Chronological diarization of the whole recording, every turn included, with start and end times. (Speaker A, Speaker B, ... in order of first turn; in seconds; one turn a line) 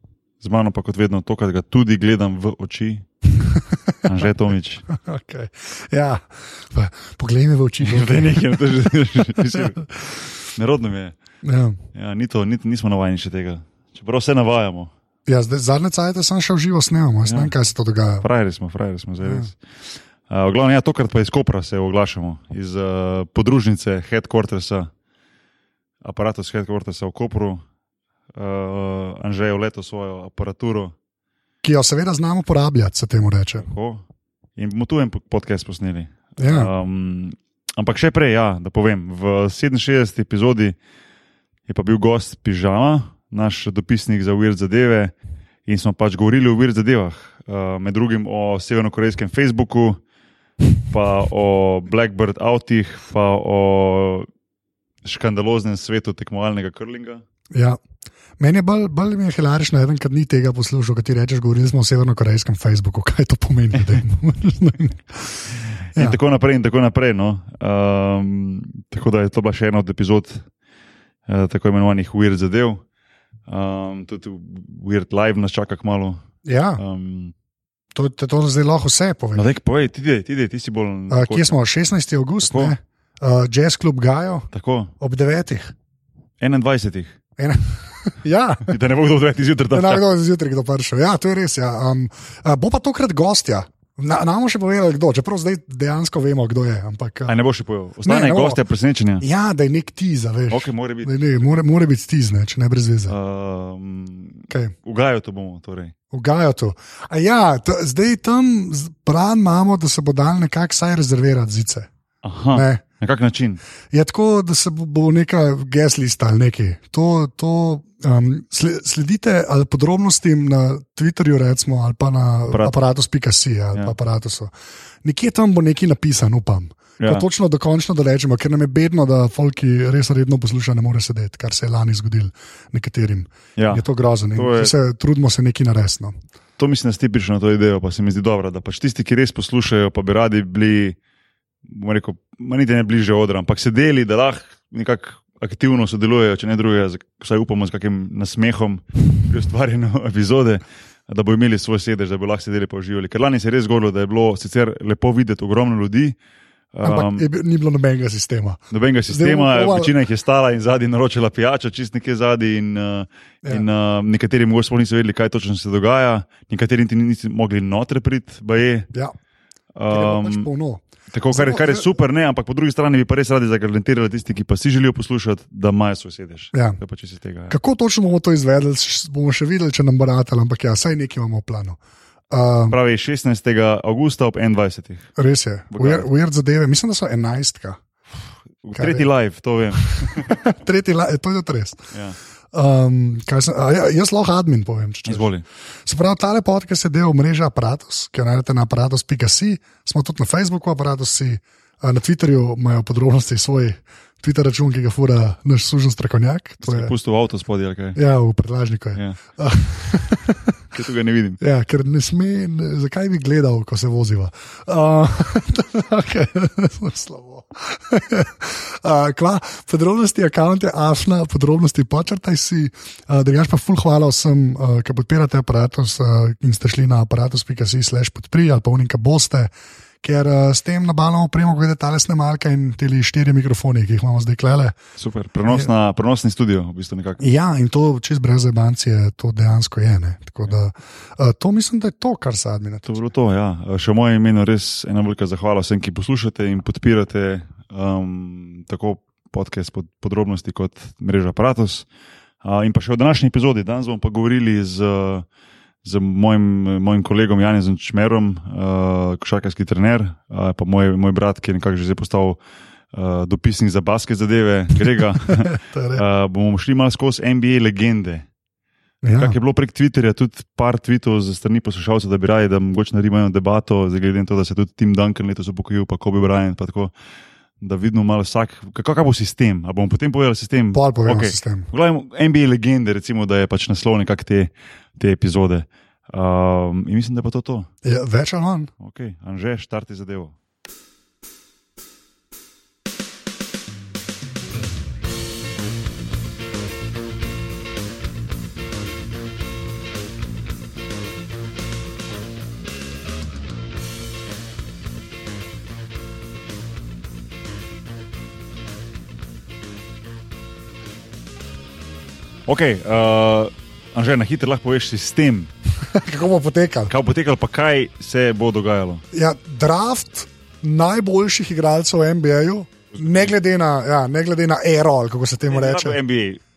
Speaker A: 0.4-3.0
Speaker A: 4.0-4.8
Speaker B: 4.9-8.8
Speaker A: 7.8-9.8
Speaker B: 9.3-10.1
Speaker A: 10.5-11.1
Speaker B: 11.4-11.8
Speaker A: 11.9-14.9
Speaker B: 15.3-18.2
Speaker A: 17.2-17.5
Speaker A: 18.2-19.6
Speaker B: 19.2-19.5
Speaker A: 20.3-24.9
Speaker A: 26.0-27.6
Speaker A: 28.3-30.9
Speaker B: 31.6-33.6
Speaker A: 33.6-34.0
Speaker A: 34.6-40.7
Speaker B: 36.4-36.7
Speaker A: 41.7-45.1
Speaker A: 45.6-50.0
Speaker A: 50.9-54.3
Speaker A: 55.0-57.2
Speaker B: 57.5-57.8
Speaker B: 58.4-65.4
Speaker A: 65.9-70.4
Speaker A: 71.3-72.8
Speaker A: 73.5-76.2
Speaker B: 76.4-76.8
Speaker A: 76.8-77.3
Speaker B: 77.9-79.4
Speaker A: 79.3-81.5
Speaker B: 81.1-84.5
Speaker A: 82.4-82.7
Speaker A: 84.5-84.9
Speaker B: 85.0-85.7
Speaker A: 86.4-87.1
Speaker B: 87.4-88.7
Speaker A: 88.7-90.0
Speaker B: 89.7-97.3
Speaker A: 97.2-99.2
Speaker B: 98.0-98.6
Speaker B: 99.2-103.1
Speaker A: 100.5-101.1
Speaker A: 103.1-105.9
Speaker B: 106.1-111.9
Speaker A: 112.2-113.6
Speaker B: 112.5-112.8
Speaker B: 113.9-124.5
Speaker B: 125.0-136.1
Speaker A: 127.0-127.2
Speaker A: 133.6-134.7
Speaker A: 136.6-140.9
Speaker A: 141.7-156.2
Speaker A: 156.7-157.2
Speaker B: 156.8-159.9
Speaker A: 158.7-168.9
Speaker A: 169.7-170.5
Speaker B: 169.9-171.9
Speaker A: 171.1-177.6
Speaker B: 176.5-176.8
Speaker B: 177.5-181.8
Speaker B: 182.3-182.8
Speaker A: 182.7-185.1
Speaker B: 185.2-187.8
Speaker A: 185.7-186.1
Speaker A: 188.6-190.4
Speaker B: 188.8-189.1
Speaker B: 189.8-191.9
Speaker A: 191.9-192.2
Speaker B: 192.5-195.3
Speaker A: 195.1-195.4
Speaker B: 195.8-206.9
Speaker A: 206.6-208.0
Speaker B: 207.9-210.6
Speaker A: 210.7-211.4
Speaker B: 211.4-229.5
Speaker B: 230.0-234.8
Speaker A: 235.0-237.2
Speaker B: 237.2-243.0
Speaker A: 242.8-251.8
Speaker A: 252.4-255.2
Speaker A: 255.8-262.4
Speaker A: 262.9-268.2
Speaker B: 265.2-266.0
Speaker B: 269.0-269.4
Speaker A: 269.2-276.9
Speaker A: 277.6-287.7
Speaker B: 280.7-281.7
Speaker B: 287.8-288.7
Speaker A: 288.8-290.3
Speaker A: 312.5-315.5
Speaker B: 315.8-316.9
Speaker A: 316.9-319.0
Speaker B: 319.1-326.0
Speaker A: 322.9-323.3
Speaker A: 325.5-326.4